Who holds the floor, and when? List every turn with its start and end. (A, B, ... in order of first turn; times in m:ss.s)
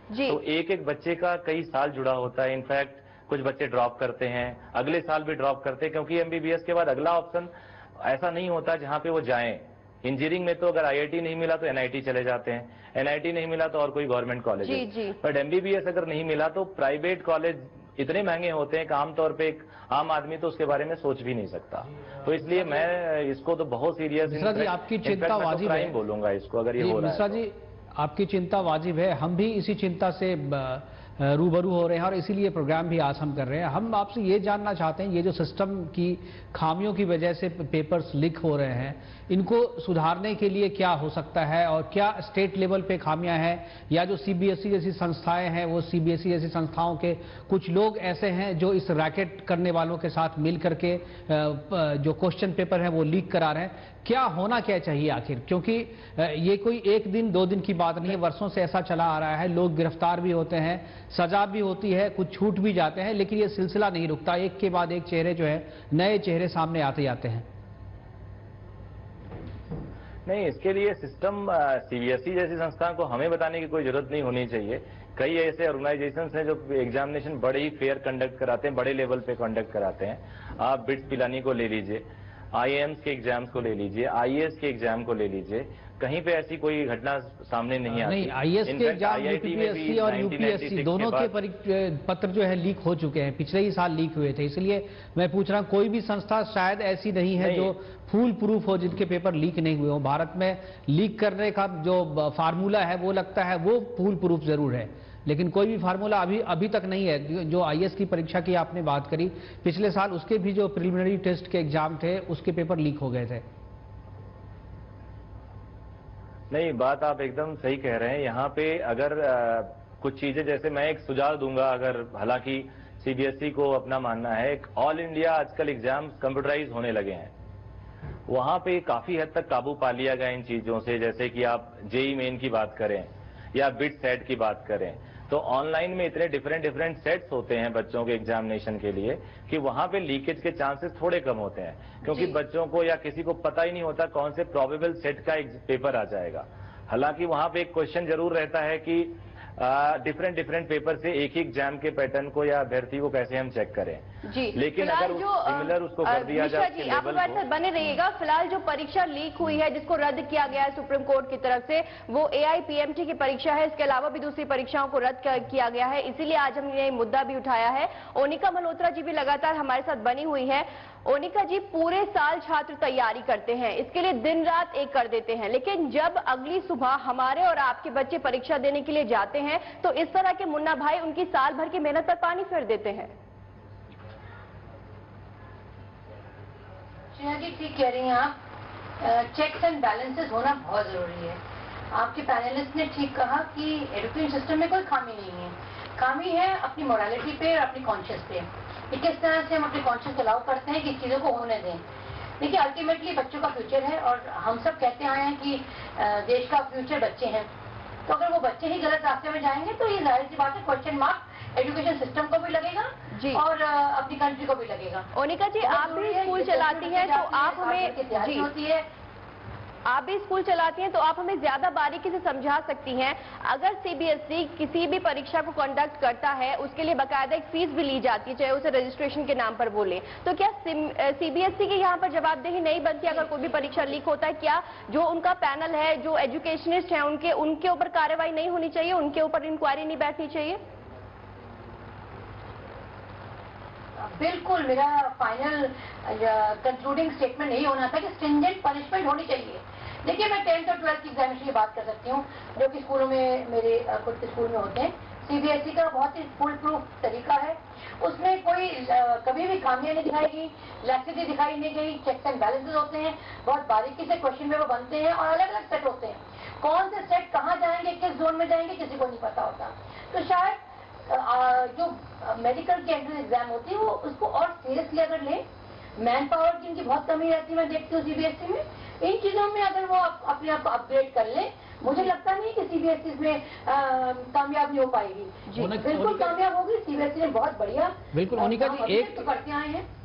0:00.1-0:00.4 A
0:00.3-0:27.4 B
0:14.6-0:15.2 A
0:24.3-0:26.0 C
0:26.8-1:07.4 C
1:10.2-1:31.3 B
1:27.9-1:53.4 C
1:37.4-1:37.7 B
1:56.5-2:07.3 B
2:08.3-2:34.0 B
2:22.1-2:22.3 A
2:34.2-3:03.1 A
2:34.6-2:37.4 B
3:07.1-3:08.4 D
3:09.0-3:11.4 D
3:11.9-3:21.8 D
3:22.4-3:27.5 D
3:28.1-3:35.1 D
3:33.1-3:33.4 A
3:35.1-3:38.5 A
3:35.6-3:38.8 D
3:39.9-4:00.6 A
4:04.0-4:35.4 D
4:36.0-4:49.8 D
4:45.6-4:46.4 C
4:48.1-4:49.3 C